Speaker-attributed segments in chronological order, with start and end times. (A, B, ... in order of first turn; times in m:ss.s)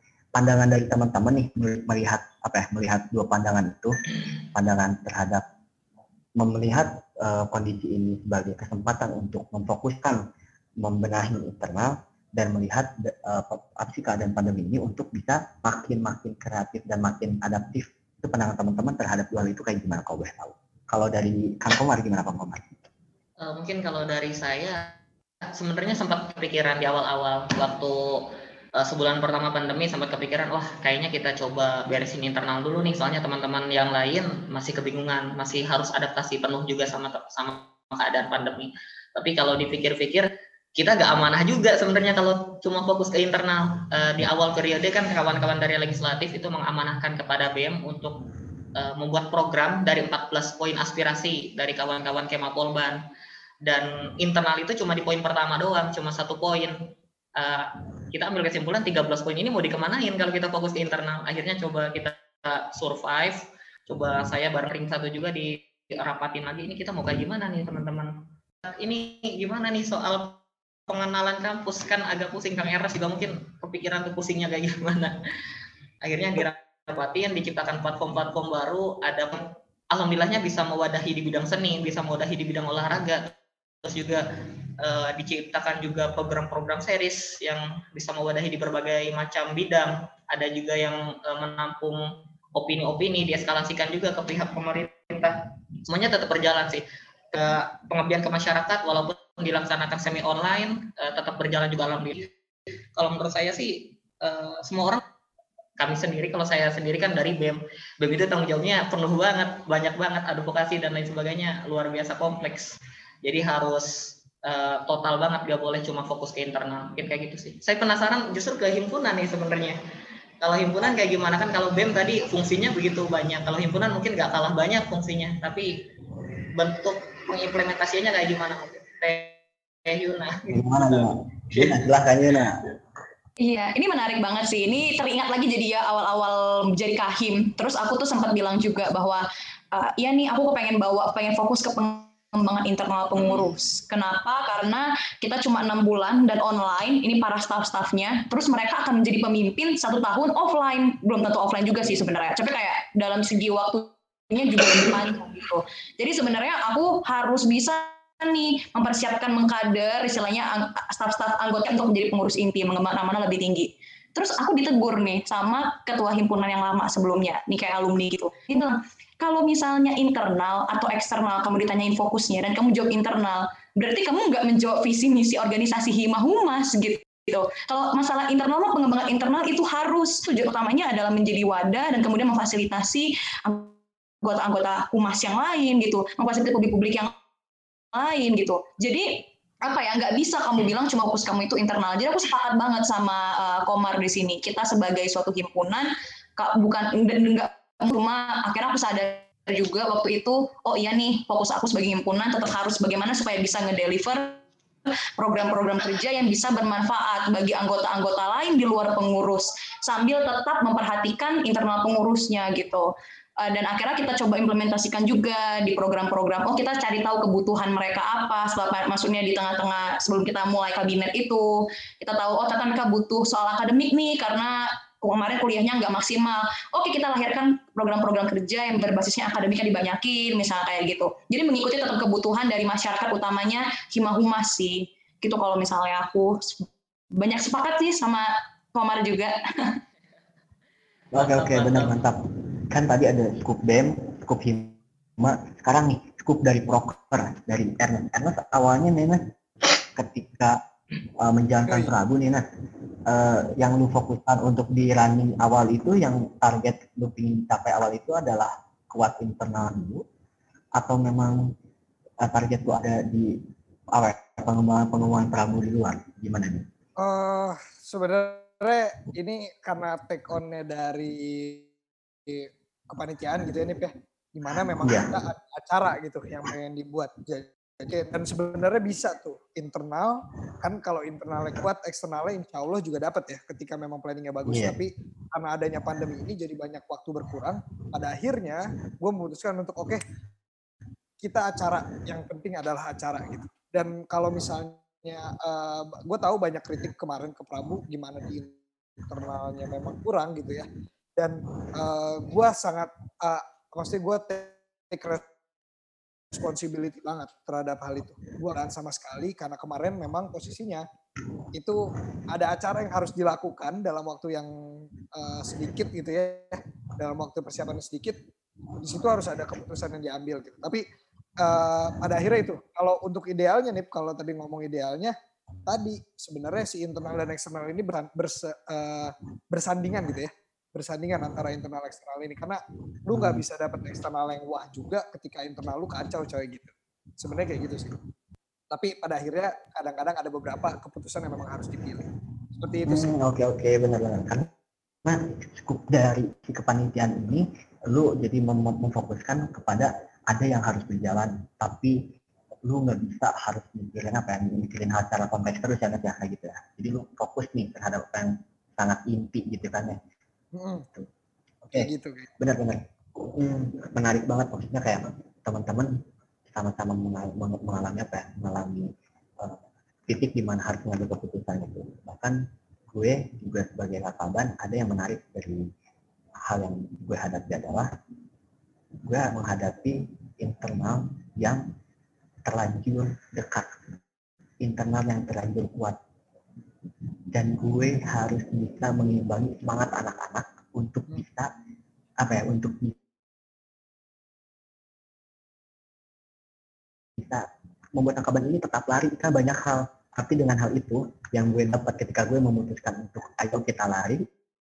0:00.4-0:04.0 A
0:04.5-0:05.4 A
0:06.4-0:10.2 A
0:10.8-0:22.7 A
0:23.4-0:25.0 B
0:25.6-0:48.2 B
0:48.8-0:53.0 B
0:53.6-0:56.8 B
0:57.4-1:08.1 B
1:08.6-1:15.1 B
1:16.0-1:19.4 B
1:19.9-1:24.2 B
1:24.8-1:32.0 B
1:32.6-1:42.3 B
1:43.0-1:45.0 B
1:45.8-1:59.8 B
2:00.4-2:05.7 B
2:06.6-2:11.8 B
2:10.5-2:12.6 A
2:13.4-3:03.7 C
2:23.2-2:23.5 B
3:04.2-3:07.1 C
3:07.9-3:24.4 C
3:25.2-3:32.9 C
3:33.4-3:41.5 C
3:42.0-3:59.8 C
4:01.1-4:02.0 B
4:01.2-4:09.2 A
4:10.0-4:10.6 A
4:11.2-4:12.4 A
4:11.7-4:11.9 D
4:13.1-4:20.0 A
4:20.8-4:21.4 A
4:22.2-4:23.3 A
4:23.9-4:26.7 A
4:27.0-4:31.7 D
4:32.3-4:50.0 D
4:34.8-4:35.1 A
4:44.5-4:44.8 A
4:51.2-5:05.2 D
5:06.3-5:10.8 D
5:11.6-5:14.5 D
5:15.1-5:18.2 D
5:18.8-5:20.8 D
5:21.4-5:25.1 D
5:25.7-5:38.0 D
5:33.1-5:33.4 A
5:38.7-5:43.1 D
5:42.9-5:44.5 A
5:45.0-5:51.9 A
5:52.7-6:00.0 A
6:00.6-6:00.9 D
6:01.7-6:02.3 D
6:02.4-6:05.9 A
6:06.5-6:08.9 A
6:09.4-6:12.4 A
6:12.9-6:15.6 A
6:16.5-6:17.9 A
6:19.1-6:21.6 A
6:22.5-6:23.8 A
6:24.6-6:26.0 A
6:27.3-6:31.5 A
6:32.2-6:33.0 A
6:37.2-6:37.4 A
6:38.0-6:44.2 A